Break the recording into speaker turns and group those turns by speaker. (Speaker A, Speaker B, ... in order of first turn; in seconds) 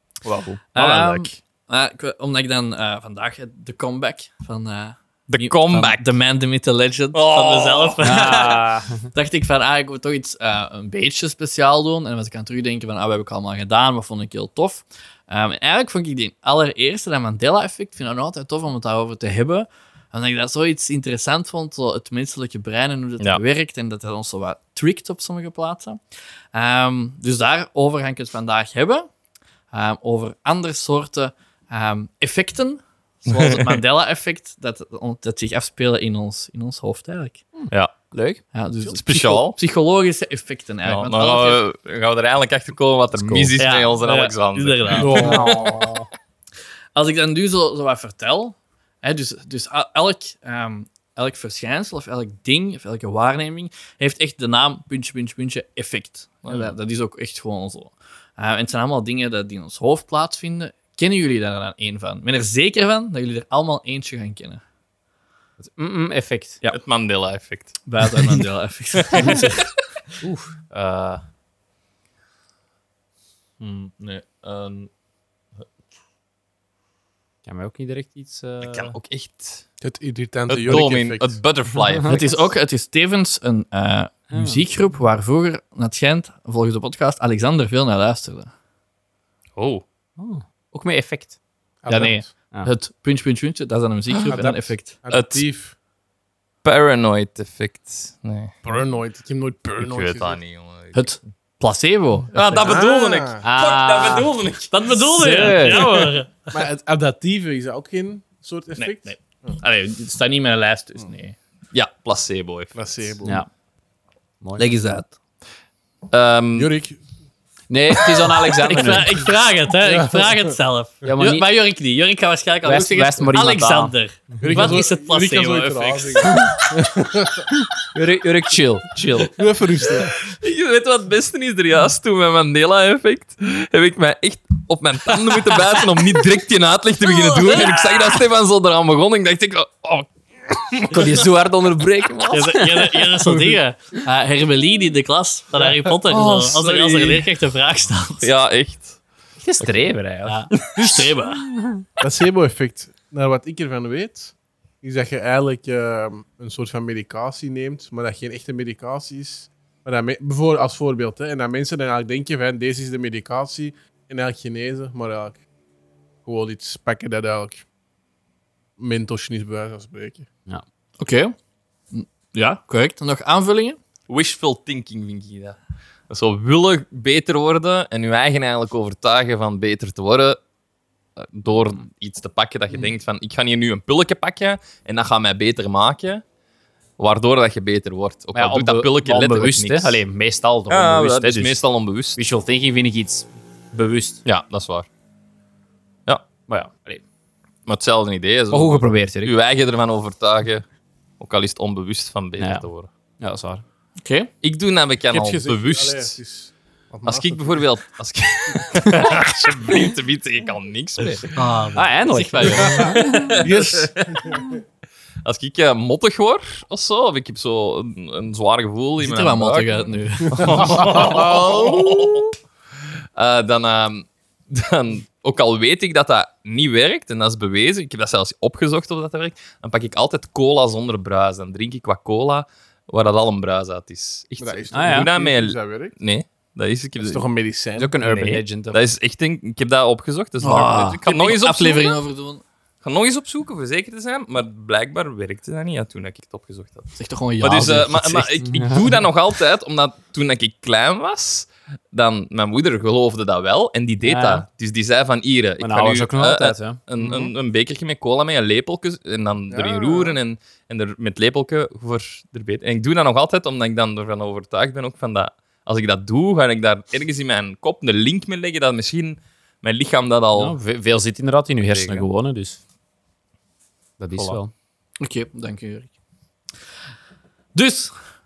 Speaker A: 0.2-0.6, 8.0-9.1, 37.6-38.4, 43.1-43.5, 45.2-46.0, 65.6-66.6, 70.2-71.2, 77.5-78.9, 81.8-82.2, 84.3-84.6, 90.2-91.4, 103.4-104.3, 105.2-106.1, 114.4-114.7, 117.7-119.3, 121.0-121.5, 122.6-123.9, 127.9-129.4, 140.9-143.4, 149.4-150.5, 151.5-151.8, 188.3-191.6, 192.2-194.2, 196.5-197.0, 198.5-199.3, 202.4-202.7, 203.2-203.6, 211.7-213.4, 234.7-235.1, 237.8-238.9, 254.0-254.5, 255.6-256.8, 270.4-272.6, 274.0-274.5
Speaker B: 0.8-26.0, 26.5-29.1, 29.7-37.4, 38.5-41.6, 43.6-45.5, 47.0-64.6, 67.8-69.7, 82.1-88.5, 91.9-94.9, 100.9-102.8, 104.7-106.6, 109.6-111.4, 114.6-115.1, 118.5-126.5, 137.2-138.0, 142.3-148.3, 150.3-151.5, 171.0-171.3, 171.9-173.8, 204.0-204.3, 211.3-213.3, 219.0-221.2, 240.4-242.4, 247.0-248.8, 275.0-275.9, 277.6-277.9
Speaker C: 0.8-1.3, 5.3-6.2, 7.1-8.4, 33.3-33.8, 38.9-39.6, 40.9-46.0, 56.5-56.7, 66.7-68.4, 69.0-69.6, 73.6-74.9, 78.6-79.7, 80.5-82.4, 89.6-89.8, 95.1-95.5, 96.6-98.5, 99.8-101.1, 102.3-105.9, 108.8-109.2, 111.7-113.2, 116.1-116.7, 130.1-141.2, 146.1-147.3, 148.2-149.0, 174.1-175.6, 176.1-180.4, 181.2-186.2, 187.0-190.0, 190.7-192.2, 194.2-194.9, 197.7-200.7, 201.2-202.9, 204.4-206.2, 207.1-211.3, 212.4-214.2, 215.2-222.4, 223.2-237.3, 238.0-242.0, 242.8-270.6, 271.6-272.1
Speaker D: 44.9-45.7, 79.8-81.4, 91.8-92.3, 94.3-95.8, 98.6-100.4, 102.6-103.4, 106.5-109.6, 112.8-113.4, 116.5-117.0, 124.4-127.5, 129.3-130.1, 152.0-165.4, 166.2-167.7, 168.8-170.3, 205.1-207.7, 212.5-214.5, 220.4-221.9, 234.4-235.9, 237.0-237.9, 259.5-260.2